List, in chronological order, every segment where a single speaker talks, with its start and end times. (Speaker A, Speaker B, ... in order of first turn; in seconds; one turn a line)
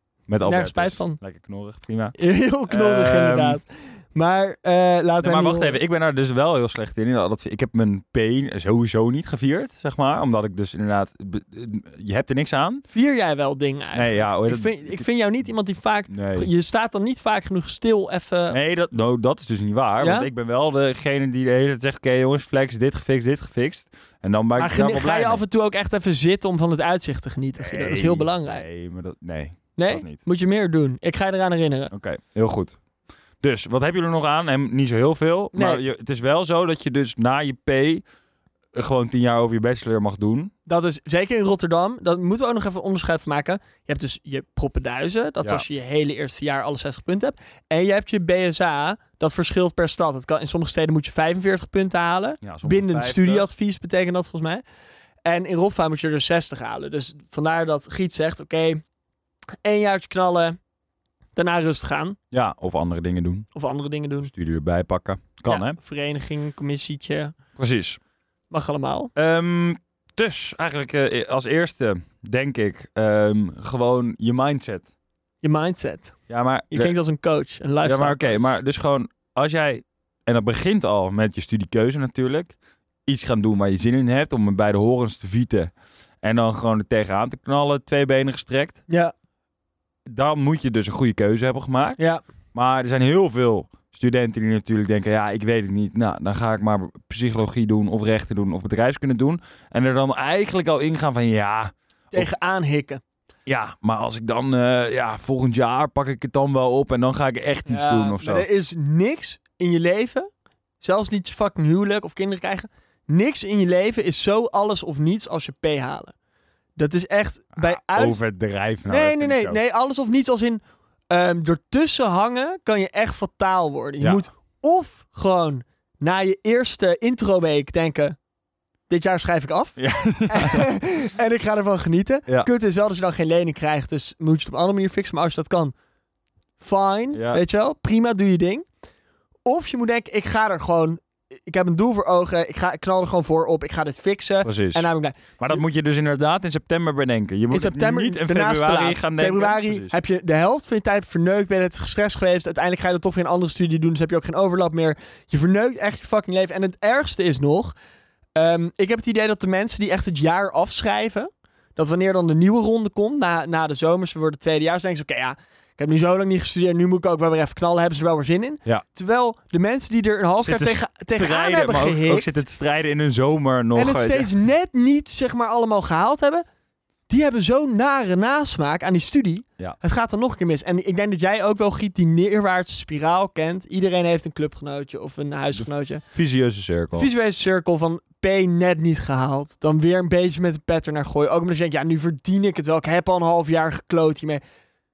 Speaker A: 0.3-2.1
Speaker B: 0.4-1.2
Speaker B: 2.2-5.8
Speaker A: 2.7-3.6
Speaker A: 5.2-12.8
Speaker B: 12.9-18.6
Speaker A: 13.9-15.0
Speaker A: 16.1-16.5
Speaker A: 18.5-25.4
Speaker B: 20.0-20.3
Speaker B: 24.6-28.6
Speaker A: 27.6-30.2
Speaker B: 29.8-31.9
Speaker A: 31.9-32.8
Speaker A: 33.4-38.0
Speaker B: 35.5-35.8
Speaker A: 38.7-40.5
Speaker B: 40.7-54.6
Speaker A: 52.4-53.5
Speaker B: 55.2-58.8
Speaker B: 59.6-60.6
Speaker B: 61.4-62.2
Speaker A: 62.3-63.5
Speaker B: 63.5-64.3
Speaker A: 64.2-65.8
Speaker B: 65.5-67.3
Speaker A: 67.6-68.0
Speaker B: 68.5-69.1
Speaker A: 69.2-74.9
Speaker B: 75.4-76.2
Speaker A: 76.3-76.9
Speaker B: 76.7-78.5
Speaker A: 77.8-85.7
Speaker A: 86.2-88.8
Speaker B: 88.9-89.1
Speaker A: 90.1-92.0
Speaker A: 92.5-102.3
Speaker B: 102.1-103.0
Speaker A: 103.5-108.5
Speaker B: 107.7-110.3
Speaker B: 110.8-116.1
Speaker B: 116.8-118.2
Speaker A: 117.6-119.6
Speaker B: 118.9-128.2
Speaker B: 128.9-135.7
Speaker A: 129.8-130.7
Speaker B: 136.6-138.7
Speaker A: 137.1-137.4
Speaker B: 139.5-145.6
Speaker A: 144.4-149.9
Speaker B: 147.5-157.7
Speaker B: 158.4-172.4
Speaker A: 170.4-174.3
Speaker B: 173.8-176.4
Speaker B: 177.1-186.0
Speaker A: 185.5-187.1
Speaker B: 186.9-194.4